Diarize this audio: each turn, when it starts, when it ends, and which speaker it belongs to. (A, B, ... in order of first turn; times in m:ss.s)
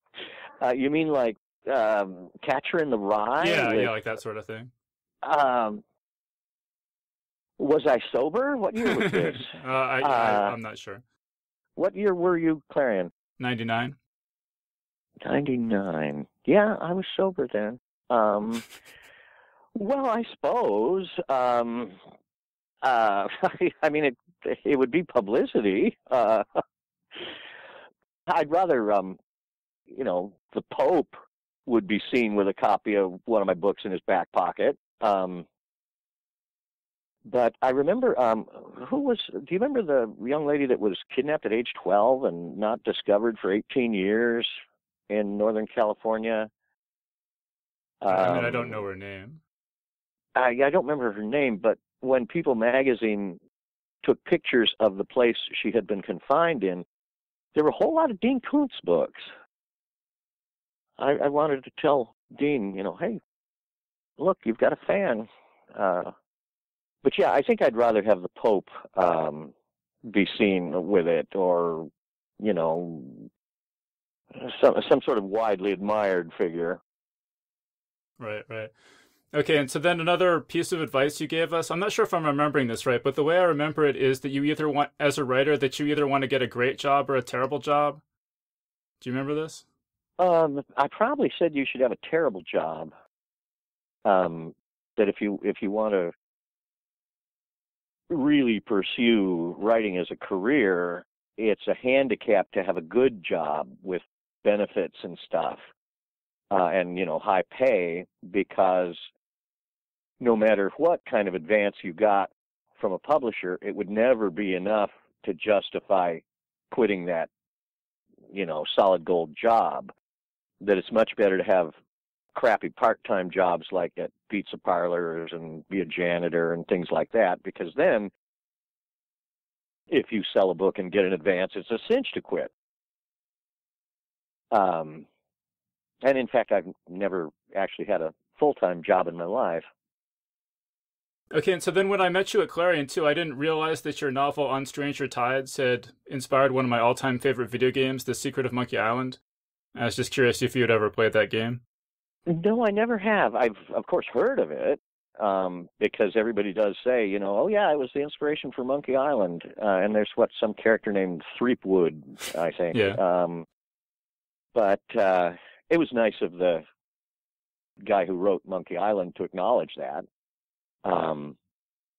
0:00.6-0:04.0 A
0:03.4-0:04.7 B
0:05.2-0:05.8 A
0:07.6-0:10.6 A
0:09.1-0:11.0 B
0:11.8-0:13.1 A
0:13.4-0:14.0 B
0:15.2-0:18.7 A
0:19.7-0:22.0 A
0:22.8-0:26.4 A
0:28.3-0:29.2 A
0:29.9-0:35.4 A
0:37.3-0:44.5 A
0:45.1-0:46.5 A
0:48.0-0:48.8 A
0:48.1-0:49.4 B
0:50.4-0:53.4 A
0:54.0-0:56.9 A
0:57.5-0:59.3 A
1:01.0-1:03.2 A
1:04.2-1:06.1 A
1:07.0-1:09.5 A
1:10.1-1:13.3 A
1:14.4-1:16.8 A
1:18.2-1:18.7 B
1:19.3-1:28.0 B
1:29.0-1:29.6 B
1:30.2-1:32.9 A
1:34.0-1:36.1 A
1:38.1-1:45.6 A
1:46.5-1:49.1 A
1:50.2-1:57.3 A
1:58.3-1:59.9 A
2:00.6-2:01.8 A
2:02.3-2:08.1 A
2:09.9-2:12.5 A
2:14.5-2:15.0 A
2:16.0-2:19.7 A
2:21.3-2:29.2 B
2:29.7-2:31.6 B
2:32.3-2:43.4 A
2:42.7-2:43.0 B
2:44.6-2:46.6 A
2:47.8-2:50.0 A
2:50.8-2:51.4 A